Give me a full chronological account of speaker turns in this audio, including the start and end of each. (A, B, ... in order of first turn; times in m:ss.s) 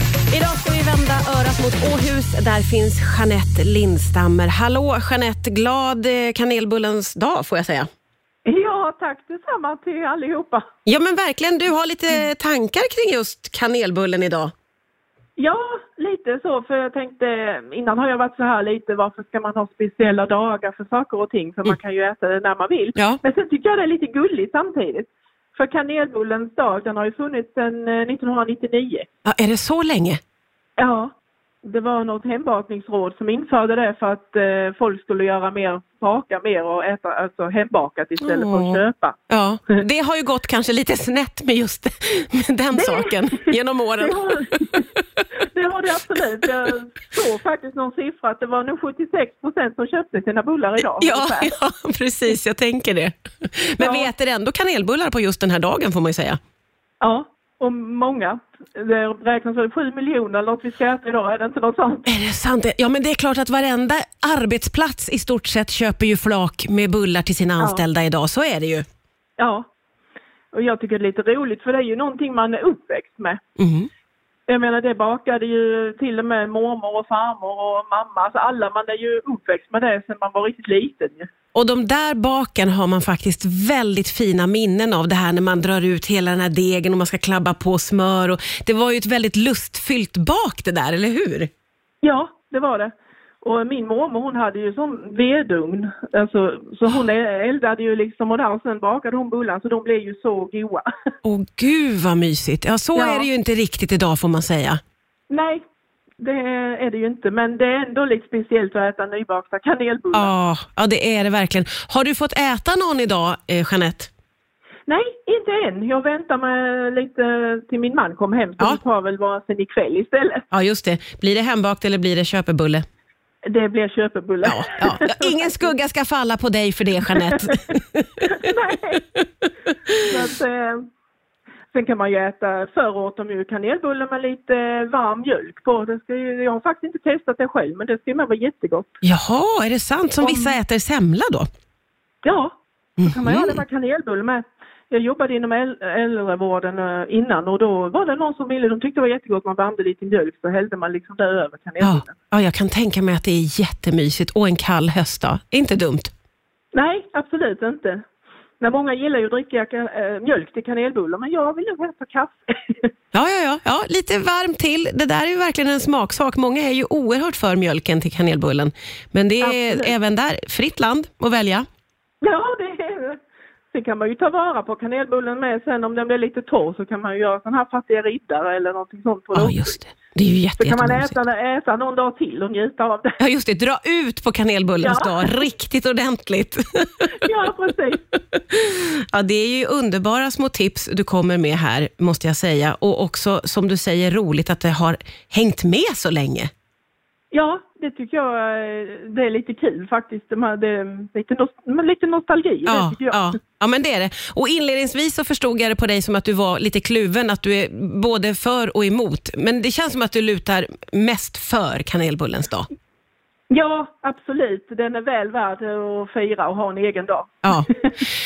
0:00.3-0:07.8 A
0:08.4-0:10.6 B
0:10.8-0:14.5 A
0:15.4-0:29.0 B
0:29.2-0:30.2 A
0:30.8-0:39.2 B
0:38.2-0:44.5 A
0:42.7-0:44.9 B
0:45.4-0:51.5 B
0:51.0-0:56.4 A
0:53.8-0:54.1 B
0:57.0-1:02.0 B
1:02.0-1:08.8 A
1:09.4-1:09.7 B
1:10.5-1:13.4 B
1:13.6-1:13.9 A
1:14.5-1:21.3 B
1:21.5-1:31.5 A
1:32.0-1:40.8 B
1:41.2-1:44.8 A
1:42.9-1:43.3 B
1:45.3-1:45.6 B
1:46.2-1:50.3 B
1:50.1-1:54.1 A
1:54.9-2:00.4 B
2:00.5-2:02.8 A
2:03.4-2:05.7 B
2:04.4-2:08.3 A
2:07.2-2:09.0 B
2:09.9-2:10.9 B
2:11.7-2:18.9 B
2:19.0-2:21.5 A
2:20.2-2:20.6 B
2:22.2-2:32.2 B
2:23.0-2:23.6 A
2:31.8-2:36.1 A
2:36.7-2:38.0 B
2:38.6-2:42.9 B
2:43.1-2:51.6 A
2:49.4-2:49.9 B
2:52.2-2:59.8 B
2:59.3-3:01.1 A
3:00.6-3:03.1 B
3:03.2-3:07.1 A
3:04.8-3:05.4 B
3:07.2-3:08.0 B
3:08.5-3:16.5 A
3:17.3-3:23.4 B
3:22.6-3:32.7 A
3:33.5-3:38.0 B